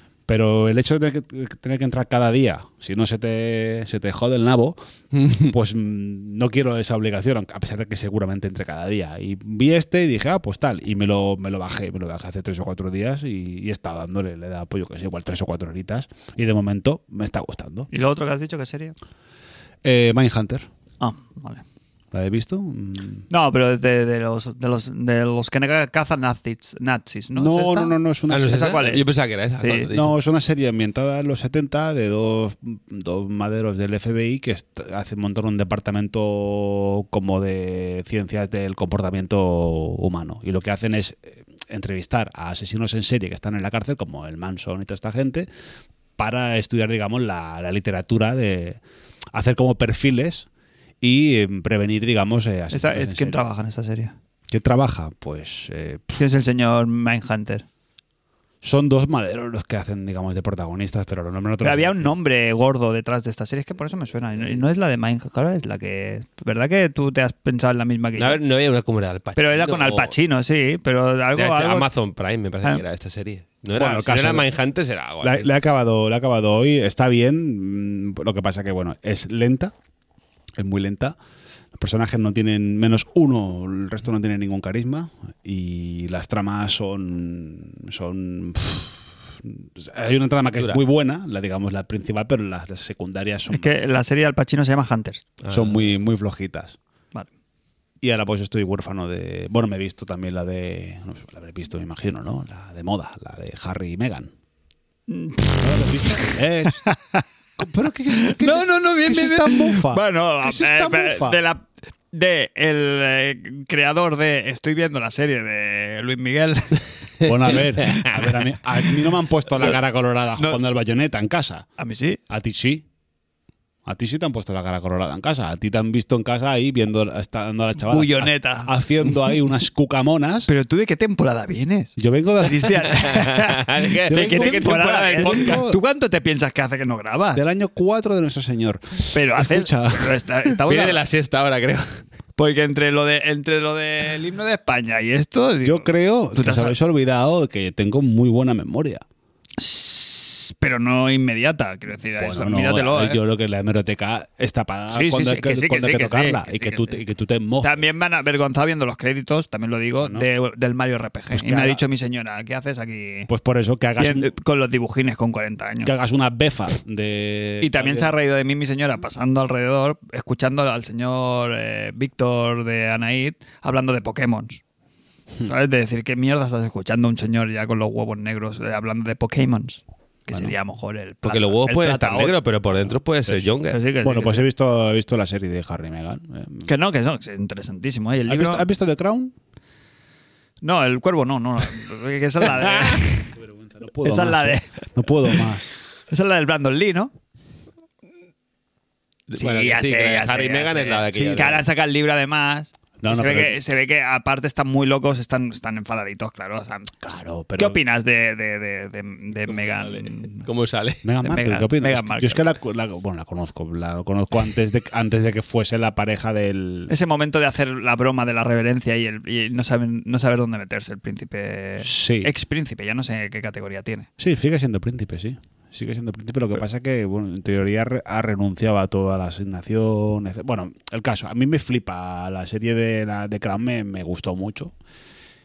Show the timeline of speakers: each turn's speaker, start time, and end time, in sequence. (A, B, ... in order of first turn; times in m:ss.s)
0:00.3-0:04.8 A
0:05.1-0:05.5 B
0:05.4-0:17.9 A
0:17.9-0:18.9 C
0:19.8-0:20.7 A
0:21.0-0:21.6 C
0:22.1-0:23.2 A
0:23.3-0:29.0 C
0:27.3-0:28.7 A
0:28.3-0:30.1 B
0:29.6-0:29.9 C
0:29.9-0:45.5 A
0:46.2-0:48.8 A
0:49.3-0:50.5 A
0:51.0-0:53.4 A
0:52.7-0:54.1 C
0:54.5-0:56.2 A
0:56.2-0:57.6 C
0:58.6-1:02.1 A
1:01.6-1:08.4 C
1:08.2-1:10.1 B
1:09.4-1:11.9 C
1:11.4-1:15.5 B
1:13.7-1:14.5 A
1:15.2-1:19.7 A
1:20.6-1:21.2 A
1:21.7-1:33.7 A
1:33.5-1:35.2 C
1:35.4-1:35.8 B
1:35.5-1:36.8 A
1:38.0-1:44.3 A
1:45.1-1:47.2 C
1:45.6-1:46.8 A
1:47.6-1:51.4 A
1:48.1-1:56.9 C
1:57.2-2:01.7 A
1:57.9-1:58.2 B
2:01.8-2:02.2 C
2:02.3-2:02.8 A
2:03.8-2:10.5 A
2:07.8-2:09.3 C
2:10.5-2:17.4 C
2:12.0-2:13.1 A
2:13.0-2:15.6 B
2:14.1-2:15.8 A
2:17.3-2:20.5 A
2:19.1-2:21.0 C
2:20.7-2:22.0 B
2:22.4-2:26.7 C
2:25.6-2:29.0 A
2:29.6-2:33.2 C
2:32.2-2:37.8 A
2:34.9-2:37.0 C
2:37.6-2:43.3 C
2:40.0-2:40.3 A
2:41.3-2:41.8 A
2:43.3-2:44.3 A
2:44.0-2:45.9 C
2:45.8-2:48.1 A
2:47.6-2:54.6 C
2:55.4-3:02.3 C
3:00.3-3:00.5 A
3:01.2-3:03.8 B
3:03.7-3:04.4 C
3:04.0-3:06.7 A
3:06.6-3:08.6 C
3:08.2-3:09.3 A
3:10.6-3:13.3 C
3:12.6-3:12.9 B
3:13.4-3:15.7 A
3:14.0-3:14.7 C
3:16.1-3:17.1 C
3:19.3-3:21.6 B
3:19.4-3:26.9 C
3:21.1-3:21.5 A
3:23.0-3:23.6 A
3:27.0-3:27.8 A
3:27.6-3:30.5 C
3:29.5-3:31.0 B
3:31.0-3:36.9 A
3:31.2-3:32.5 C
3:36.9-3:44.1 C
3:41.8-3:42.3 A
3:44.2-3:54.7 A